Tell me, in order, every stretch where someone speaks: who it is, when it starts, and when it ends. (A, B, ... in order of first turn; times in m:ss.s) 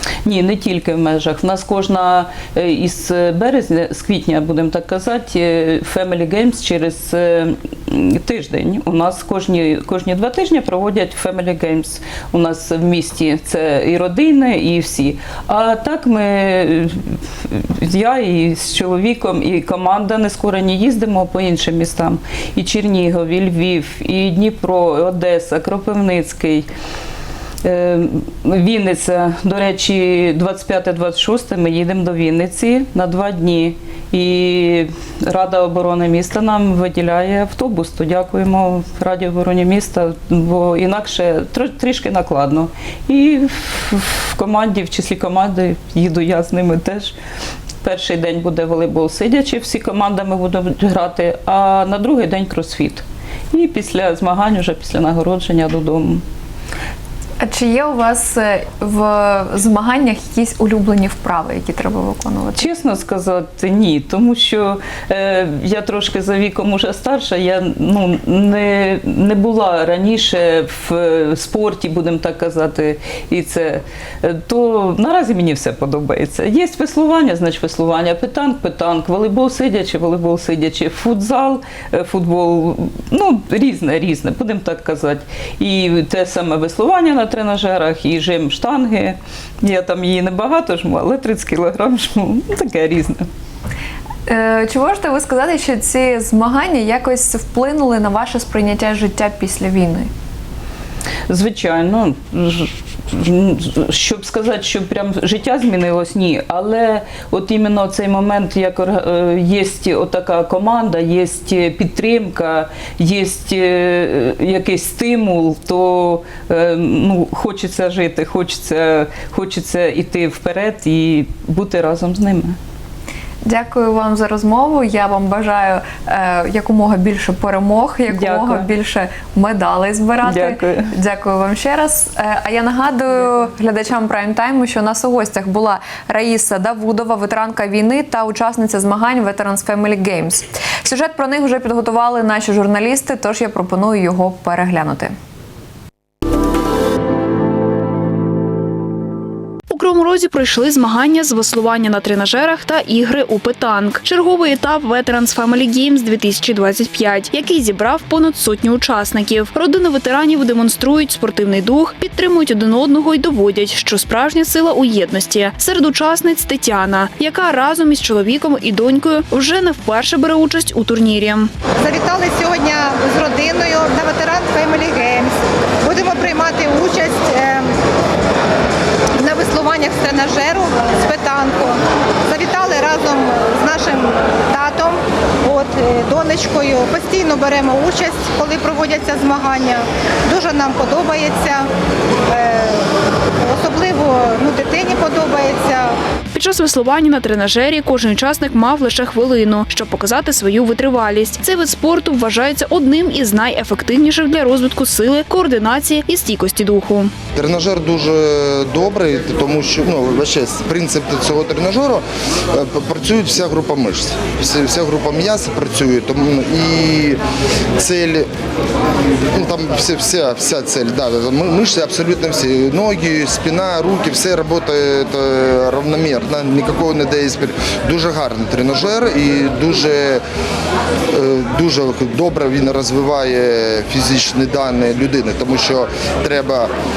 0:00.2-0:17.0 A
0:17.5-0:26.6 A
0:27.6-0:47.2 A
0:47.8-0:56.2 A
0:57.4-1:02.6 B
1:02.5-1:33.2 A
1:34.3-1:40.1 B
1:41.3-2:02.6 A
2:03.4-2:25.1 B
2:08.1-2:08.7 A
2:10.2-2:10.9 A
2:29.7-2:51.5 C
2:51.8-2:57.7 D
2:59.2-3:11.7 D
3:12.3-3:12.9 D
3:13.4-3:15.9 D
3:16.3-3:27.1 C
3:27.4-3:37.2 E
3:37.8-3:38.3 E
3:39.3-3:50.2 E
3:51.1-3:56.7 E